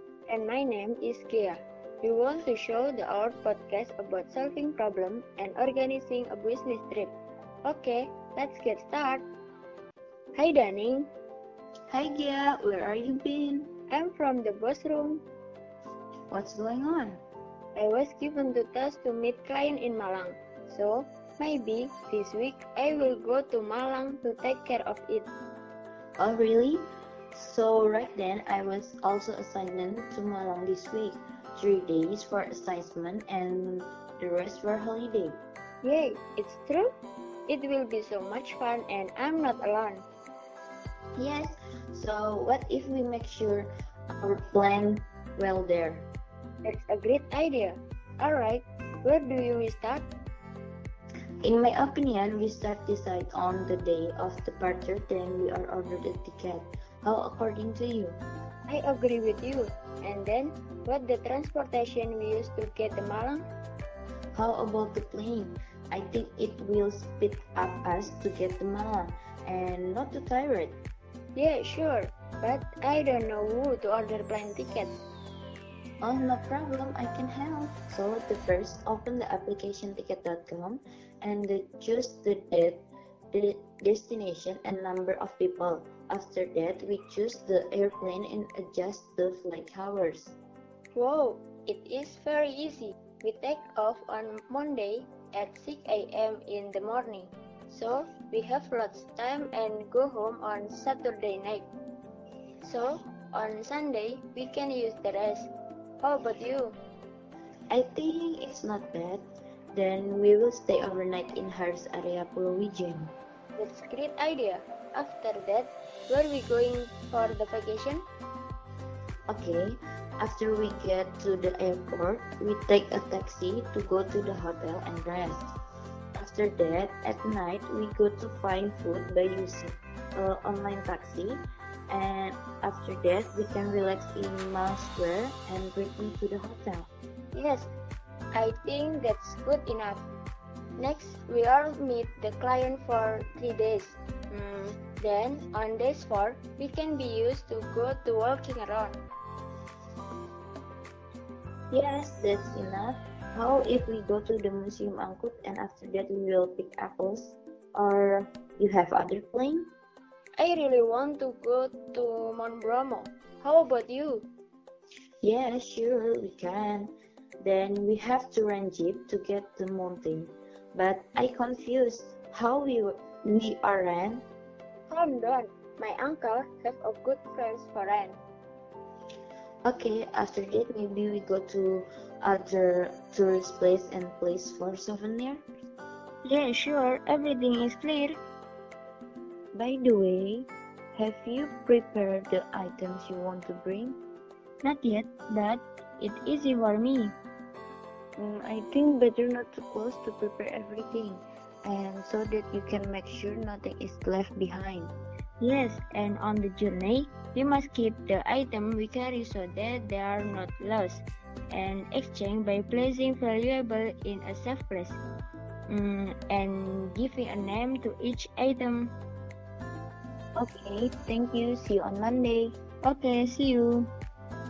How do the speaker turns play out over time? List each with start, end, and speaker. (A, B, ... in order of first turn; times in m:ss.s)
0:00.3-0:09.2 A
0:10.4-0:11.1 A
0:11.9-0:13.7 B
0:13.9-0:15.2 A
0:16.3-0:17.2 B
0:17.8-0:25.3 A
0:26.2-0:35.4 B
0:35.8-0:36.9 A
0:37.5-0:40.0 A
0:41.2-0:46.1 B
0:46.6-0:50.1 A
0:51.4-0:58.2 B
0:58.7-1:03.4 A
1:04.4-1:10.8 B
1:11.4-1:15.0 A
1:16.0-1:30.4 B
1:31.0-1:41.7 A
1:42.6-1:45.5 A
1:46.0-1:46.8 A
1:47.7-1:53.1 B
1:53.6-1:58.0 A
1:59.3-2:05.5 B
2:06.1-2:16.9 B
2:17.3-2:17.7 A
2:18.3-2:20.0 A
2:20.8-2:29.0 A
2:31.7-2:39.7 B
2:40.4-2:44.3 A
2:45.2-2:54.2 B
2:54.9-2:58.2 A
2:59.6-3:05.4 B
3:06.2-3:08.2 A
3:09.5-3:14.0 B
3:14.6-3:17.2 A
3:18.2-3:24.9 B
3:25.4-3:35.0 A
3:35.7-3:38.9 A
3:40.4-3:42.6 B
3:42.8-3:43.9 A